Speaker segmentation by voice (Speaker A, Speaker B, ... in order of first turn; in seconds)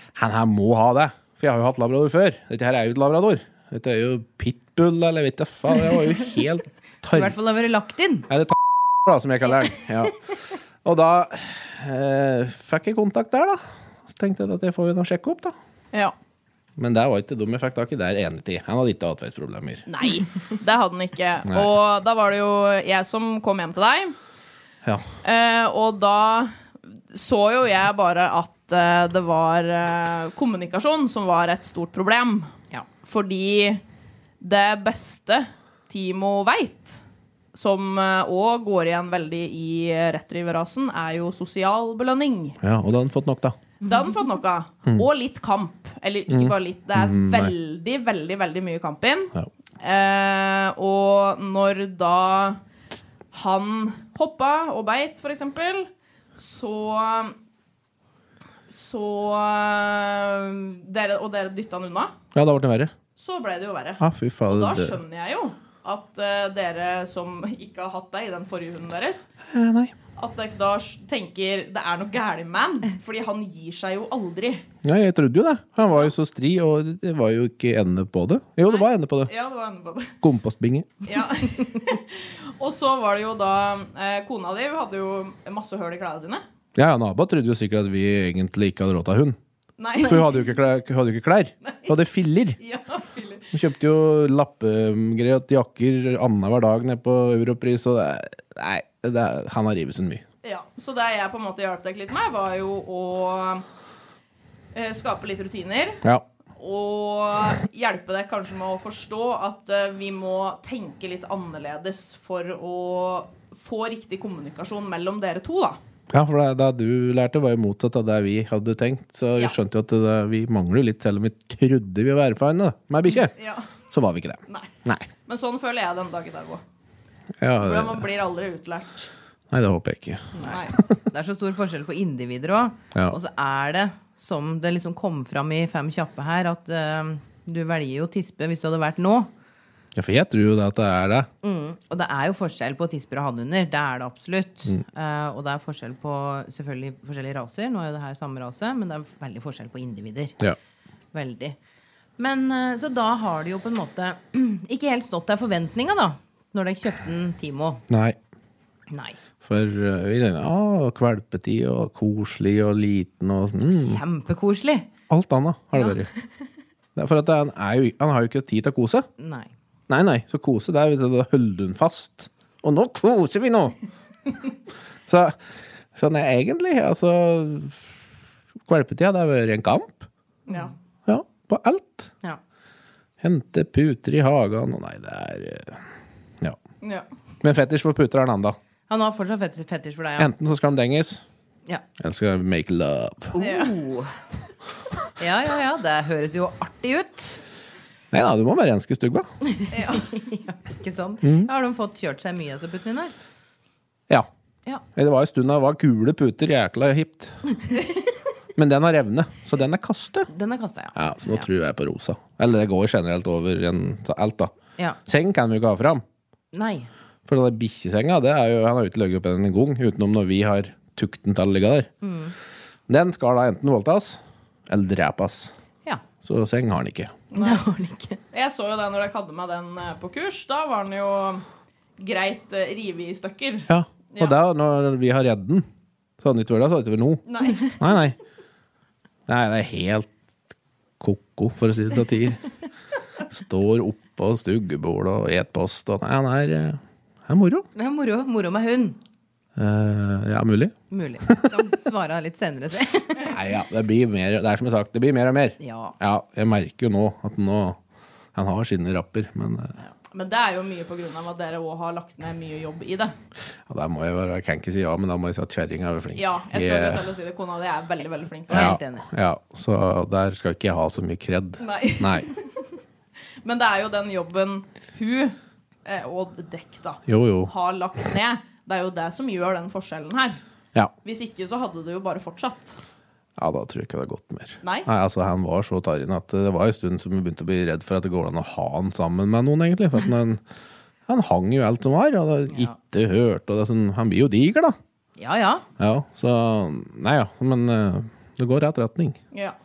Speaker A: 0.1-7.3, 8.3-15.6, 16.8-19.9, 21.5-21.7, 42.6-43.6, 46.3-47.5, 62.3-62.9, 64.0-65.0, 69.5-69.9, 74.8-79.3, 80.2-80.9, 86.8-89.4, 90.0-92.6, 93.5-100.2, 116.1-123.3, 123.9-125.1, 127.4-128.1, 129.5-130.9, 139.9-141.3, 157.9-158.2, 159.4-164.0, 165.1-166.1, 167.0-169.1, 169.9-173.8, 175.1-175.4, 175.9-178.0, 178.7-180.1, 181.1-182.1, 183.2-185.8, 187.4-188.6, 190.2-191.2, 192.0-193.3, 198.1-199.3, 201.2-201.5, 204.9-207.4, 208.6-210.3, 210.9-214.5, 215.1-216.0, 217.3-221.9, 222.9-225.5, 226.2-227.2, 233.7-235.7, 236.2-237.2, 237.8-238.2, 239.3-240.1, 241.0-242.4, 243.3-247.7, 249.6-251.5, 253.3-257.8, 258.4-259.8, 263.7-267.1, 268.5-272.3, 277.1-277.5, 283.4-290.4, 291.1-294.8, 295.8-299.2
Speaker B: 7.1-8.3, 130.4-139.3, 141.4-150.4, 151.1-151.6, 152.2-157.8, 158.9-159.2, 163.7-164.9, 169.2-169.5, 188.9-190.3, 193.3-194.2, 195.2-197.4, 199.6-203.1, 210.3-211.5, 216.5-216.9, 222.0-222.3, 227.3-228.2, 247.8-249.0, 250.9-253.3, 255.6-256.0, 268.5-269.1, 292.5-292.8, 295.2-295.6
Speaker C: 19.9-24.2, 25.2-26.6, 27.1-33.8, 34.4-37.0, 37.5-42.6, 43.8-52.6, 53.3-57.4, 58.7-62.1, 63.2-69.3, 70.2-74.7, 75.8-76.1, 78.7-80.2, 81.1-86.4, 89.8-90.3, 91.7-91.9, 92.6-93.5, 100.4-103.7, 104.7-106.0, 106.6-115.8, 123.4-123.7, 125.3-126.6, 127.6-129.1, 130.5-130.8, 186.8-187.1, 193.4-193.8, 199.7-200.1, 227.3-227.6, 228.3-231.4, 232.0-234.4, 237.3-237.9, 260.1-263.1, 266.1-268.8, 271.6-272.8, 273.4-280.4, 281.0-282.8, 284.6-284.9